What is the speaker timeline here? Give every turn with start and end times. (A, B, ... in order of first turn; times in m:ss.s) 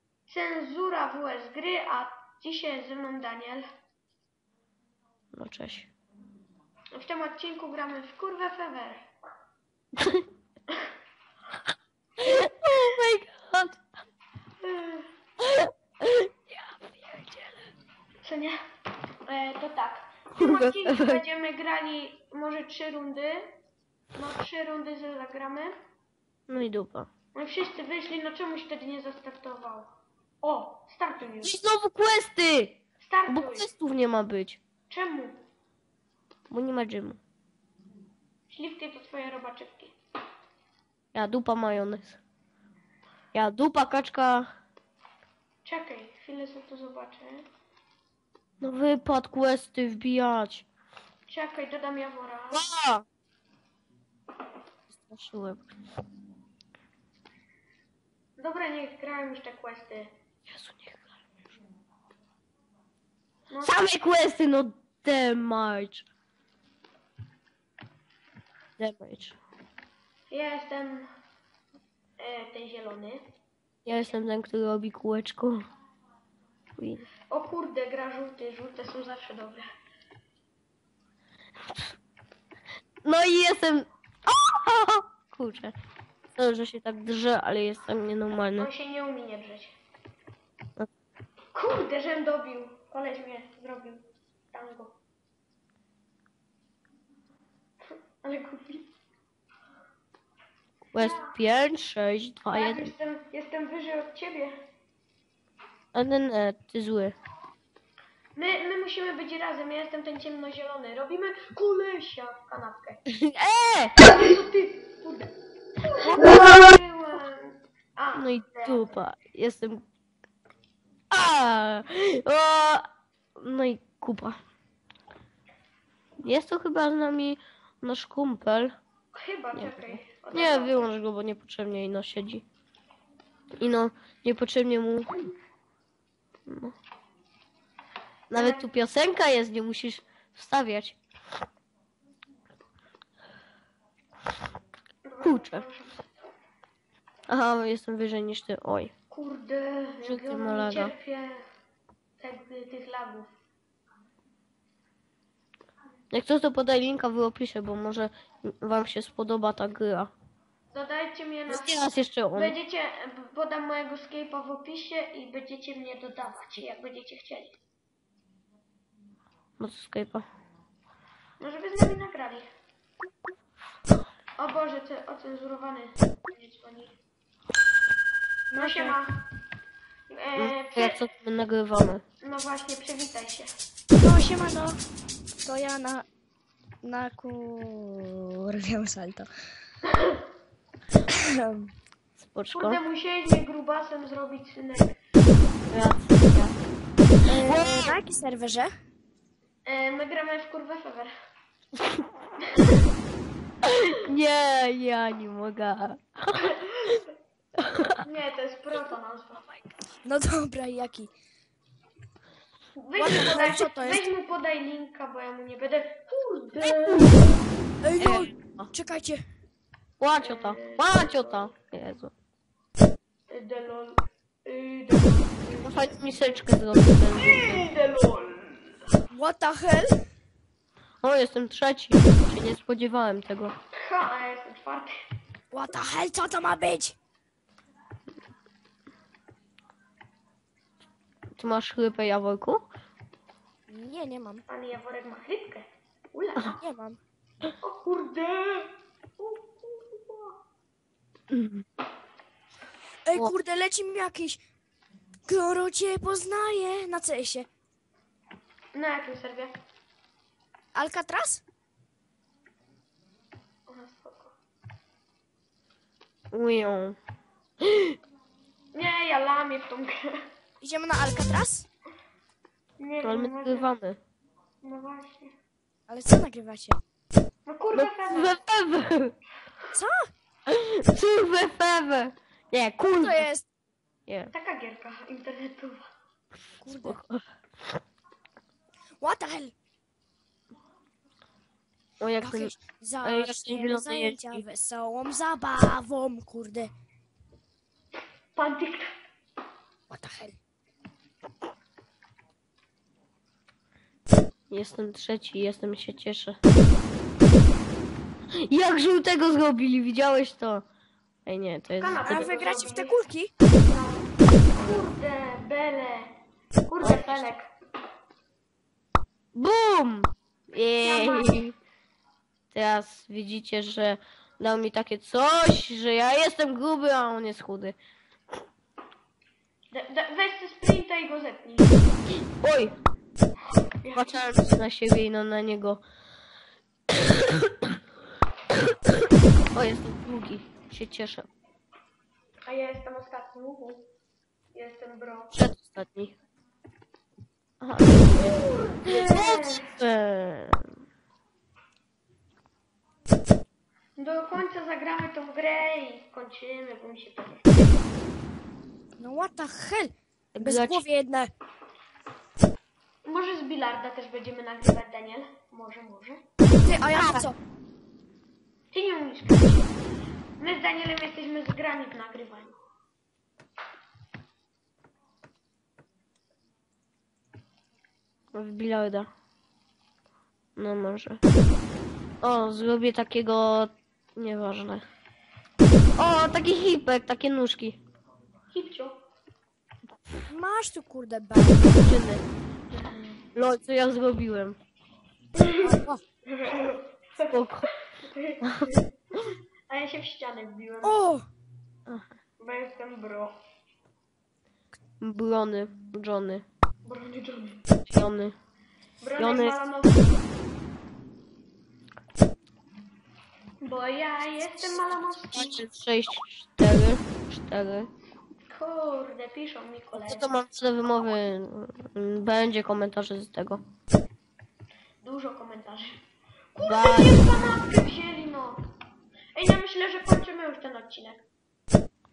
0:00.3-0:03.6 A
0:05.3-0:05.9 B
0:06.9-0:09.0 A
0:12.2-0:13.8 B
0:14.6-0:15.1 A
0:15.4-0:17.5 B
0:18.2-0:18.6 A
0:19.2-0:23.5 A
0:20.4-0:21.2 B
0:24.2-0:25.8 A
0:26.5-0:27.1 B
0:27.3-0:29.9 A
0:30.4-0:31.5 A
0:31.4-0:34.6 B
0:33.0-0:33.7 A
0:34.9-0:35.4 A
0:36.5-0:37.2 B
0:38.5-0:39.9 A
0:41.1-0:42.2 B
0:43.3-0:44.5 B
0:45.6-0:47.4 A
0:48.6-0:50.6 B
0:51.3-0:52.7 A
0:52.5-0:53.0 B
0:54.9-0:55.7 B
0:58.4-1:00.1 A
1:00.5-1:01.1 B
1:03.5-1:03.8 A
1:03.6-1:06.0 B
1:08.8-1:09.4 B
1:10.3-1:11.1 A
1:12.2-1:13.2 A
1:13.8-1:15.6 B
1:16.8-1:17.0 B
1:17.3-1:19.7 A
1:23.0-1:25.7 B
1:26.4-1:28.7 B
1:28.6-1:29.7 A
1:31.5-1:35.0 A
1:38.2-1:38.9 A
1:40.9-1:42.9 B
1:40.9-1:41.3 A
1:42.5-1:44.6 A
1:45.9-1:47.1 B
1:48.4-1:53.0 A
1:53.1-1:53.9 B
1:54.0-1:55.3 A
1:55.9-1:58.9 A
1:58.2-1:59.8 B
2:01.1-2:02.8 B
2:03.4-2:04.4 B
2:06.2-2:08.7 B
2:09.1-2:10.9 A
2:09.5-2:12.4 B
2:13.6-2:15.1 B
2:16.5-2:16.7 B
2:18.3-2:21.0 B
2:18.3-2:18.7 A
2:25.0-2:26.0 A
2:25.2-2:25.6 B
2:27.3-2:28.9 B
2:29.1-2:31.4 A
2:30.0-2:30.9 B
2:32.2-2:33.3 A
2:36.1-2:40.1 B
2:40.7-2:47.5 A
2:41.5-2:42.5 B
2:49.6-2:50.2 B
2:51.4-2:52.5 A
2:54.4-2:56.9 A
2:58.5-2:59.0 C
2:58.5-2:59.1 A
3:00.1-3:01.0 A
3:00.4-3:02.0 B
3:02.2-3:03.5 A
3:04.0-3:04.8 C
3:05.4-3:06.0 C
3:06.8-3:09.3 C
3:09.9-3:10.2 A
3:11.1-3:11.7 C
3:12.2-3:12.8 B
3:12.5-3:15.0 A
3:15.7-3:16.5 B
3:17.3-3:18.7 C
3:17.3-3:17.9 B
3:19.6-3:21.1 A
3:22.5-3:22.8 A
3:23.6-3:26.5 B
3:26.7-3:27.0 A
3:27.6-3:28.0 B
3:28.0-3:29.4 A
3:30.0-3:31.1 C
3:32.8-3:37.3 A
3:33.0-3:34.0 C
3:36.7-3:37.0 B
3:37.8-3:39.2 C
3:38.0-3:38.7 B
3:40.0-3:42.1 B
3:40.2-3:41.5 A
3:43.3-3:45.9 A
3:45.6-3:47.6 B
3:47.1-3:48.8 A
3:49.1-3:50.0 C
3:51.0-3:53.5 B
3:53.8-3:54.9 A
3:55.5-3:56.9 C
4:01.4-4:02.6 B
4:03.7-4:04.4 C
4:04.5-4:06.6 A
4:06.6-4:07.0 C
4:07.6-4:10.4 A
4:11.3-4:11.6 B
4:13.0-4:14.4 C
4:15.2-4:17.5 C
4:18.7-4:19.5 A
4:20.7-4:21.4 C
4:23.7-4:24.3 A
4:26.3-4:27.0 B
4:27.6-4:27.9 B
4:28.7-4:30.2 A
4:30.6-4:31.6 C
4:32.8-4:33.7 A
4:33.0-4:34.0 B
4:34.6-4:35.3 A
4:35.9-4:36.8 C
4:37.4-4:38.4 A
4:37.8-4:39.1 B
4:39.7-4:40.0 C
4:40.5-4:43.3 B
4:43.0-4:43.4 C
4:44.1-4:44.3 B
4:44.3-4:45.9 A
4:46.6-4:47.0 C
4:46.7-4:47.2 B
4:49.0-4:49.5 C
4:52.0-4:52.5 B
4:52.2-4:56.7 C
4:53.0-4:54.4 B
4:58.3-4:58.9 A
4:59.9-5:00.4 C
5:04.5-5:06.4 B
5:08.4-5:10.6 B
5:11.2-5:12.3 B
5:11.8-5:13.0 A
5:12.0-5:13.3 C
5:13.6-5:16.1 A
5:16.7-5:17.5 A
5:16.8-5:17.3 B
5:19.3-5:21.5 B
5:20.8-5:21.4 A
5:22.5-5:27.8 B
5:29.7-5:31.9 A
5:32.4-5:32.7 B
5:33.8-5:34.2 A
5:33.9-5:35.8 B
5:37.1-5:37.5 B
5:39.5-5:41.3 B
5:42.5-5:43.8 A
5:44.5-5:45.3 A
5:45.3-5:46.1 B
5:47.6-5:50.6 B
5:48.1-5:49.7 A
5:54.0-5:57.7 A
5:59.0-6:01.3 C
6:00.3-6:00.8 B
6:03.0-6:06.2 A
6:06.6-6:07.4 C
6:06.9-6:07.2 B
6:08.7-6:09.8 A
6:10.4-6:12.6 A
6:18.3-6:19.1 B
6:20.6-6:21.2 B
6:22.2-6:24.8 B
6:26.0-6:27.8 B
6:28.5-6:29.0 A
6:30.2-6:31.9 C
6:31.8-6:32.2 B
6:32.7-6:33.2 A
6:33.3-6:34.6 B
6:35.3-6:37.3 A
6:35.6-6:36.0 C
6:37.3-6:37.7 B
6:38.0-6:38.8 A
6:39.7-6:41.0 A
6:40.8-6:41.2 C
6:42.4-6:43.3 A
6:45.0-6:46.4 B
6:46.8-6:48.1 A
6:47.9-6:48.3 B
6:49.0-6:50.1 A
6:49.2-6:49.5 B
6:53.6-6:55.6 A
6:55.3-6:57.9 B
6:58.5-7:00.3 A
7:00.0-7:03.6 B
7:05.0-7:06.0 A
7:06.5-7:08.6 A
7:06.6-7:07.2 B
7:09.3-7:11.2 A